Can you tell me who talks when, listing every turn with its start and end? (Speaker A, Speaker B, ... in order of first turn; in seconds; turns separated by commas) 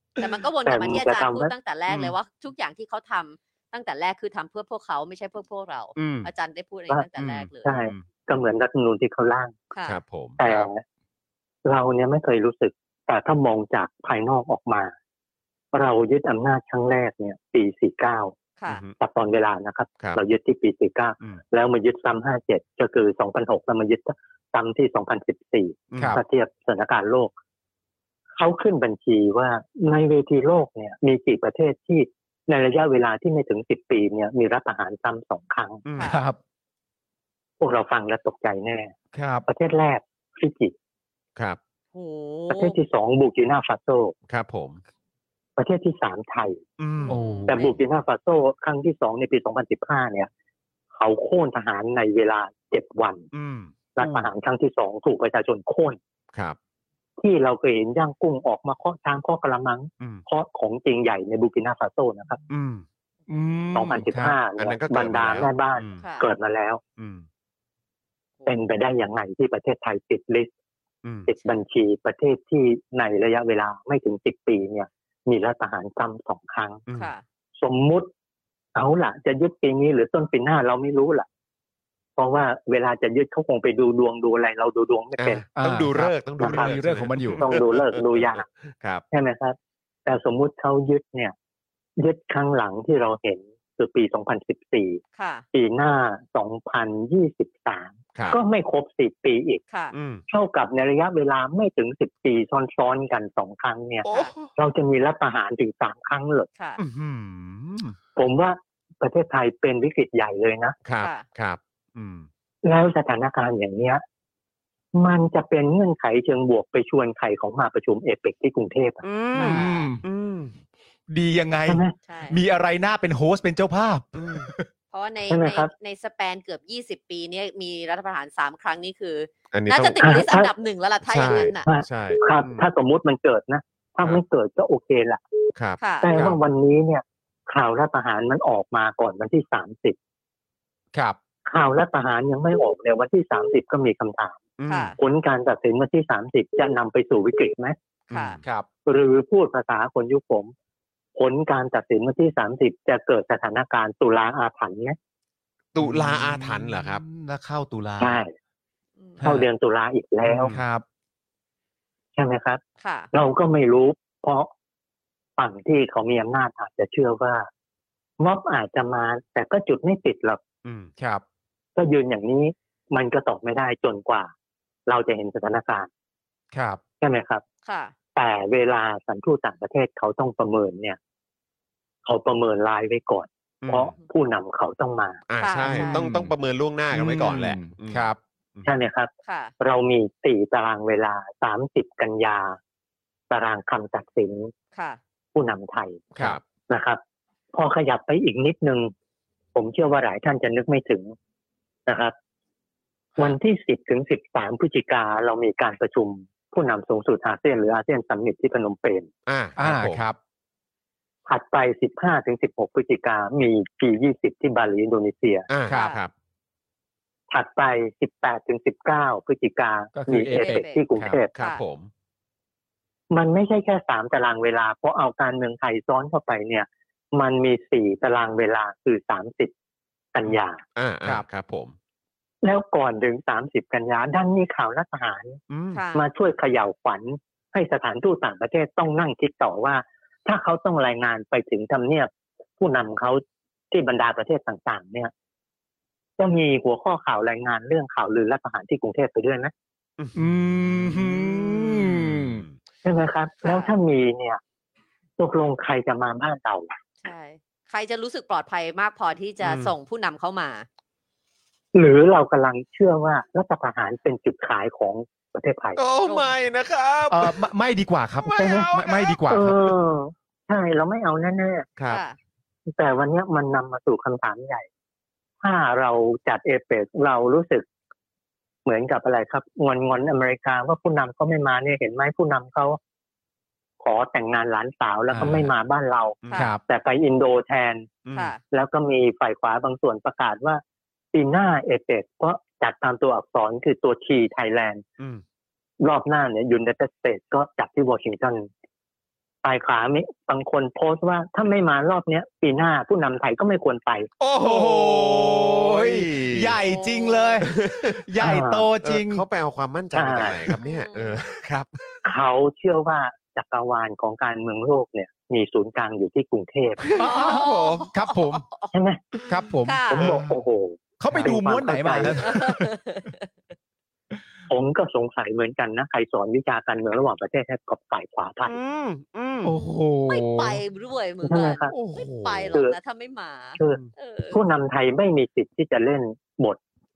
Speaker A: 0.2-7.7, Speaker B: 0.6-1.5, Speaker C: 1.9-2.1, Speaker C: 6.0-6.3, Speaker C: 7.2-8.0, Speaker B: 7.6-9.6, Speaker A: 9.7-10.0, Speaker C: 9.9-10.7, Speaker B: 10.4-10.8, Speaker B: 11.6-14.9, Speaker B: 15.7-18.4, Speaker A: 18.6-18.8, Speaker C: 18.7-18.9, Speaker B: 19.0-27.3, Speaker C: 25.9-26.2, Speaker D: 26.0-26.2, Speaker B: 28.3-35.8, Speaker C: 35.8-36.2, Speaker D: 36.0-36.4, Speaker B: 37.6-38.9, Speaker D: 39.1-39.4, Speaker B: 39.5-40.7, Speaker A: 41.9-42.8, Speaker B: 42.5-44.1, Speaker C: 44.3-44.8, Speaker B: 45.6-46.6, Speaker C: 46.8-47.8, Speaker A: 47.0-47.8, Speaker D: 47.1-47.5, Speaker B: 47.5-50.3, Speaker B: 50.9-53.3, Speaker C: 53.3-54.3, Speaker B: 54.0-56.0, Speaker B: 57.2-62.4, Speaker C: 62.5-62.8, Speaker D: 63.3-64.4, Speaker B: 63.7-66.8, Speaker C: 64.6-66.0, Speaker A: 66.0-66.3, Speaker C: 67.0-67.2, Speaker B: 68.5-70.5, Speaker C: 71.0-71.3, Speaker B: 71.3-76.8, Speaker A: 76.9-77.2, Speaker B: 77.6-78.1, Speaker B: 78.7-81.3, Speaker B: 82.2-85.4, Speaker C: 85.2-89.0, Speaker D: 85.5-87.4, Speaker B: 86.4-86.7, Speaker B: 87.4-88.4, Speaker B: 89.1-91.3, Speaker B: 92.0-95.0, Speaker A: 95.2-95.4, Speaker B: 95.5-99.6, Speaker C: 99.9-100.2, Speaker B: 100.3-106.5, Speaker C: 104.0-104.5, Speaker A: 104.1-104.3, Speaker A: 106.5-106.8, Speaker C: 106.8-108.0, Speaker B: 108.2-110.8, Speaker C: 110.8-112.3, Speaker B: 112.6-114.0, Speaker B: 114.9-119.0, Speaker C: 119.0-120.5, Speaker A: 119.3-119.9, Speaker D: 119.4-120.0, Speaker D: 121.1-124.7, Speaker B: 121.7-121.9, Speaker A: 122.0-122.4, Speaker C: 124.1-124.5, Speaker A: 124.9-131.7, Speaker B: 125.3-125.7, Speaker C: 129.5-130.2, Speaker B: 130.0-130.5, Speaker C: 131.1-132.7, Speaker B: 131.6-135.2, Speaker C: 135.6-136.4, Speaker A: 135.8-136.1, Speaker B: 136.0-139.9, Speaker B: 141.5-144.4, Speaker C: 144.6-144.9, Speaker A: 144.7-145.0, Speaker B: 145.0-147.8, Speaker C: 148.1-148.4, Speaker A: 148.1-148.4, Speaker B: 148.8-150.5, Speaker B: 151.2-155.0, Speaker C: 155.7-157.0, Speaker D: 155.8-158.2, Speaker B: 158.0-158.3, Speaker D: 159.2-159.5, Speaker B: 159.2-160.5, Speaker D: 160.3-160.8, Speaker B: 162.1-162.6, Speaker A: 162.8-163.1, Speaker B: 163.1-164.5, Speaker B: 165.4-167.5, Speaker B: 168.2-170.4, Speaker C: 170.6-170.9, Speaker D: 171.0-171.2, Speaker B: 171.8-174.3, Speaker B: 174.9-175.9, Speaker D: 176.5-176.8, Speaker B: 177.0-177.4, Speaker A: 177.6-177.9, Speaker B: 178.1-181.0, Speaker B: 182.0-185.2, Speaker C: 183.6-183.9, Speaker C: 185.3-188.7, Speaker A: 185.4-186.1, Speaker D: 185.7-186.3, Speaker D: 186.9-188.2, Speaker B: 188.6-192.6, Speaker A: 189.2-189.5, Speaker B: 193.3-194.5, Speaker A: 194.7-195.0, Speaker B: 195.3-196.1, Speaker B: 196.7-197.0, Speaker B: 197.5-198.9, Speaker B: 199.5-201.1, Speaker B: 201.9-202.1, Speaker B: 203.2-209.1, Speaker C: 209.3-210.0, Speaker D: 209.6-210.2, Speaker B: 211.3-215.5, Speaker C: 215.5-216.1, Speaker A: 215.7-216.0, Speaker B: 217.3-221.3, Speaker D: 219.9-221.2, Speaker A: 220.3-220.8, Speaker C: 221.3-221.9, Speaker A: 221.3-221.6, Speaker B: 223.1-229.5, Speaker B: 230.1-230.6, Speaker C: 230.8-231.7, Speaker B: 232.4-235.4, Speaker C: 235.5-235.8, Speaker A: 235.7-236.0, Speaker B: 235.9-245.1, Speaker B: 246.2-249.5, Speaker C: 250.0-252.5, Speaker D: 250.1-252.4, Speaker B: 252.8-254.4, Speaker A: 253.4-253.7, Speaker B: 255.2-256.7, Speaker A: 257.0-260.6, Speaker C: 259.4-259.7, Speaker B: 261.7-265.8, Speaker C: 265.8-267.4, Speaker A: 266.0-266.3, Speaker D: 267.1-269.6, Speaker C: 268.2-269.2, Speaker B: 269.3-271.7, Speaker A: 271.9-272.2, Speaker B: 272.7-274.7, Speaker B: 275.4-277.7, Speaker B: 278.6-282.8, Speaker B: 283.8-287.9, Speaker D: 285.1-285.5, Speaker C: 286.2-286.5, Speaker C: 288.1-288.3, Speaker A: 288.1-288.4, Speaker B: 288.5-290.6, Speaker B: 291.1-294.8, Speaker B: 295.8-298.5, Speaker B: 299.4-304.1, Speaker C: 304.2-306.6, Speaker D: 304.4-307.5, Speaker A: 306.6-307.4, Speaker C: 307.5-308.0, Speaker D: 308.0-309.2, Speaker B: 308.2-308.7, Speaker C: 308.8-311.7, Speaker B: 309.9-310.4, Speaker A: 310.6-311.3, Speaker B: 312.0-316.8, Speaker C: 316.8-317.9, Speaker D: 317.0-318.4, Speaker A: 317.0-318.7, Speaker B: 318.7-319.0, Speaker D: 319.3-320.3, Speaker A: 319.6-320.0, Speaker B: 319.9-322.2, Speaker D: 321.0-322.7, Speaker A: 322.2-323.3, Speaker B: 324.5-328.6, Speaker C: 328.4-329.5, Speaker D: 329.4-330.6, Speaker A: 329.5-334.4, Speaker B: 331.2-331.7, Speaker C: 331.7-332.6, Speaker B: 334.3-336.6